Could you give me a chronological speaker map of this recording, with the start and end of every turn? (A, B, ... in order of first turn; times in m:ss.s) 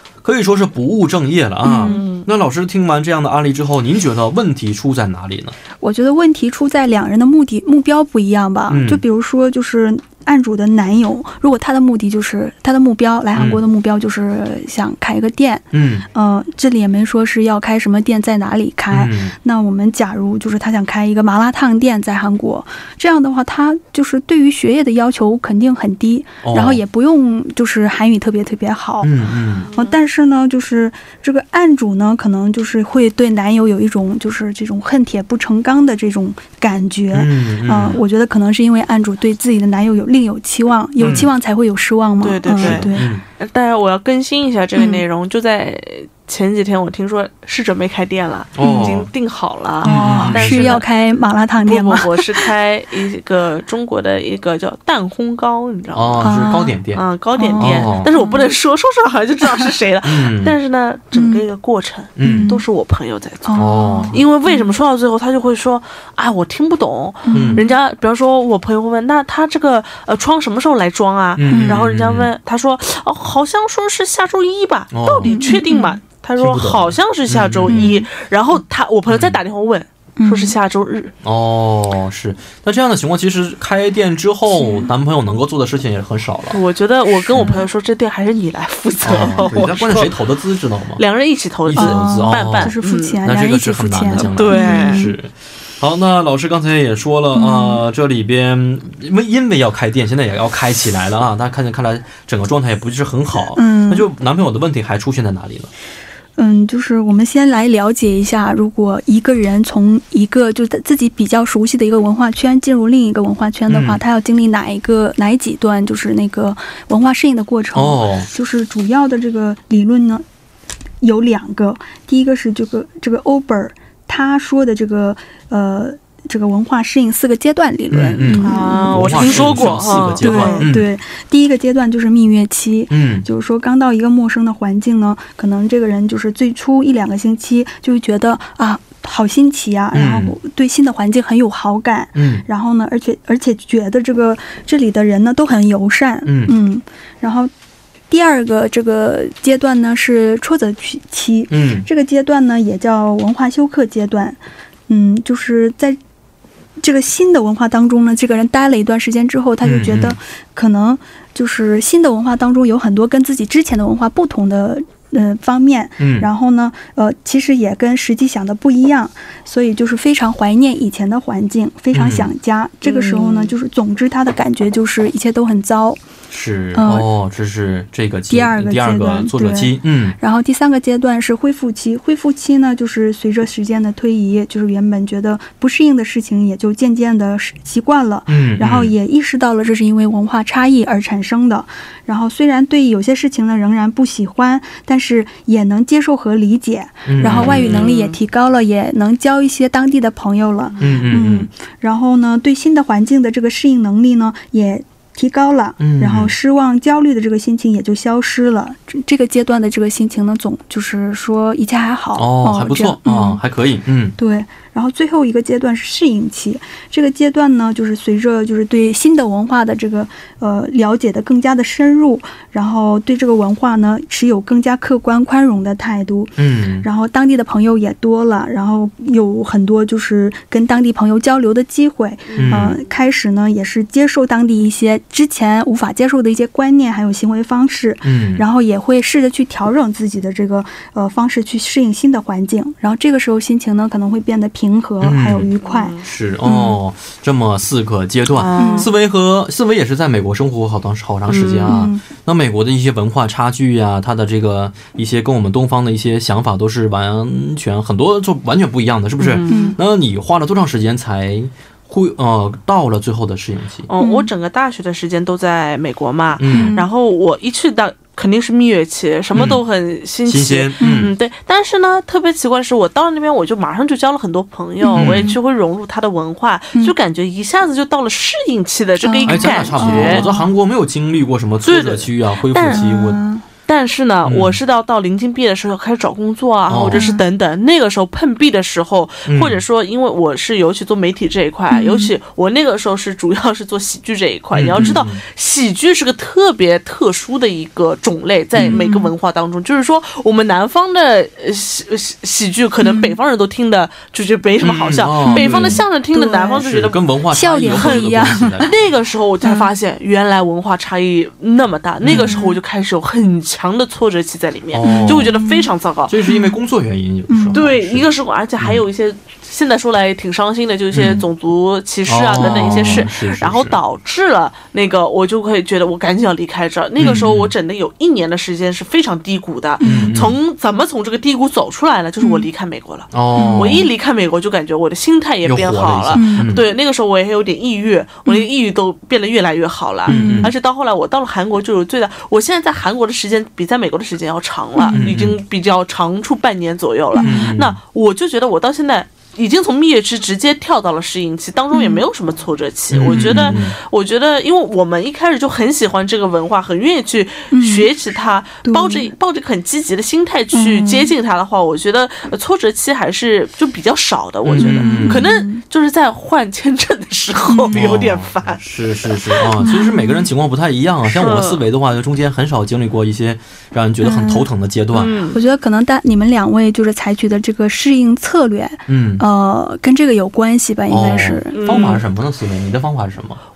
0:00.2-0:05.6 A
0:01.6-0:02.0 B
0:01.8-0:02.3 C
0:05.8-0:43.1 B
0:08.7-0:09.0 A
0:13.3-0:13.6 A
0:15.7-0:16.0 A
0:18.9-0:19.3 A
0:26.4-0:26.8 A
0:29.0-0:29.7 A
0:29.6-0:29.9 C
0:37.1-0:38.0 A
0:41.0-0:41.3 A
0:42.2-0:50.8 C
0:42.5-0:43.2 A
0:44.8-0:45.0 B
0:48.6-0:49.1 A
0:48.6-0:49.0 B
0:49.8-0:52.5 B
0:49.8-0:50.8 A
0:51.6-0:56.3 C
0:55.9-0:57.0 A
0:56.2-0:56.8 B
0:56.9-1:21.1 C
0:57.4-0:58.4 B
0:57.6-0:58.1 A
1:00.0-1:00.6 A
1:01.1-1:01.4 B
1:02.2-1:02.5 A
1:02.2-1:02.6 B
1:03.4-1:04.7 B
1:03.6-1:04.2 A
1:07.2-1:07.7 B
1:07.3-1:07.6 A
1:11.4-1:12.3 A
1:11.5-1:11.8 B
1:14.9-1:15.4 A
1:15.2-1:16.0 B
1:16.4-1:17.9 A
1:17.7-1:18.1 B
1:19.1-1:19.4 A
1:20.2-1:20.5 B
1:21.2-1:26.6 A
1:24.6-1:24.9 B
1:26.5-1:30.2 C
1:27.3-1:27.6 A
1:27.4-1:27.6 B
1:29.0-1:31.0 A
1:31.0-1:33.2 C
1:31.6-1:45.7 A
1:31.7-1:35.1 B
1:34.1-1:35.0 C
1:37.3-1:37.8 B
1:43.5-1:44.1 B
1:46.4-2:00.2 B
1:53.7-1:54.0 A
1:57.7-1:58.3 A
2:01.0-2:27.5 B
2:07.9-2:10.9 A
2:08.4-2:10.7 C
2:12.9-2:13.2 A
2:19.9-2:20.3 A
2:22.2-2:22.4 A
2:26.2-2:26.6 A
2:28.1-2:36.0 B
2:31.5-2:31.9 A
2:36.8-2:56.0 B
2:39.6-2:40.2 A
2:46.0-2:46.3 A
2:51.9-2:52.3 A
2:52.8-2:53.5 C
2:56.3-3:00.2 A
2:56.7-2:57.1 B
2:58.3-3:33.4 B
3:08.3-3:08.9 A
3:17.1-3:17.9 A
3:17.2-3:18.2 C
3:20.8-3:21.5 A
3:25.8-3:26.3 A
3:32.1-3:34.2 A
3:34.2-4:06.8 B
3:46.4-3:46.9 A
3:52.3-3:52.7 C
3:52.4-3:52.8 A
3:58.0-3:58.4 A
4:05.0-4:05.5 A
4:05.6-4:06.0 C
4:06.0-4:23.9 A
4:08.3-4:08.9 C
4:08.6-4:08.9 B
4:11.3-4:11.8 C
4:11.6-4:12.0 B
4:19.2-4:19.8 C
4:19.5-4:19.8 B
4:23.9-4:40.3 C
4:24.0-4:24.3 B
4:26.4-4:26.8 A
4:26.5-4:26.9 B
4:29.3-4:29.6 A
4:30.3-4:31.1 A
4:30.8-4:31.1 B
4:34.8-4:35.4 B
4:35.0-4:35.3 A
4:39.0-4:40.5 B
4:39.2-4:43.2 A
4:41.6-4:42.9 C
4:42.7-4:43.4 B
4:43.6-5:07.0 C
4:44.2-4:44.6 A
4:46.7-4:47.0 A
4:46.9-4:47.2 B
4:49.2-4:49.6 A
4:51.7-4:52.1 B
4:54.5-4:55.2 A
4:58.6-4:58.8 A
4:58.6-4:59.1 B
5:02.8-5:03.2 B
5:04.6-5:05.8 A
5:05.2-5:06.7 B
5:06.6-5:08.8 A
5:07.3-5:08.7 B
5:07.6-5:16.1 C
5:09.4-5:09.7 B
5:12.0-5:12.4 A
5:12.1-5:12.6 B
5:14.7-5:15.3 A
5:14.8-5:15.7 B
5:16.1-5:18.1 A
5:16.2-5:16.6 B
5:17.3-5:17.6 B
5:17.5-6:09.4 C
5:20.9-5:21.2 A
5:22.0-5:23.8 A
5:22.4-5:23.0 B
5:27.0-5:27.5 A
5:29.8-5:30.2 B
5:29.8-5:30.4 A
5:32.2-5:32.4 B
5:33.1-5:33.9 A
5:33.3-5:33.8 B
5:35.4-5:36.6 A
5:36.1-5:36.5 B
5:40.1-5:40.5 B
5:40.1-5:40.5 A
5:44.8-5:45.1 B
5:44.9-5:45.4 A
5:47.1-5:47.5 B
5:47.2-5:47.8 A
5:51.7-5:52.0 B
5:52.9-5:53.8 A
5:53.1-5:53.6 B
5:57.5-5:57.9 B
5:58.6-5:59.1 B
6:00.5-6:01.1 B
6:04.4-6:05.2 A
6:04.6-6:05.6 B
6:07.5-6:07.9 B
6:07.7-6:15.1 A
6:09.6-6:10.3 B
6:11.1-6:11.6 C
6:14.0-6:14.5 B
6:14.9-6:15.4 C
6:15.3-6:21.9 B
6:18.9-6:19.2 A
6:20.9-6:23.4 A
6:21.5-6:22.0 C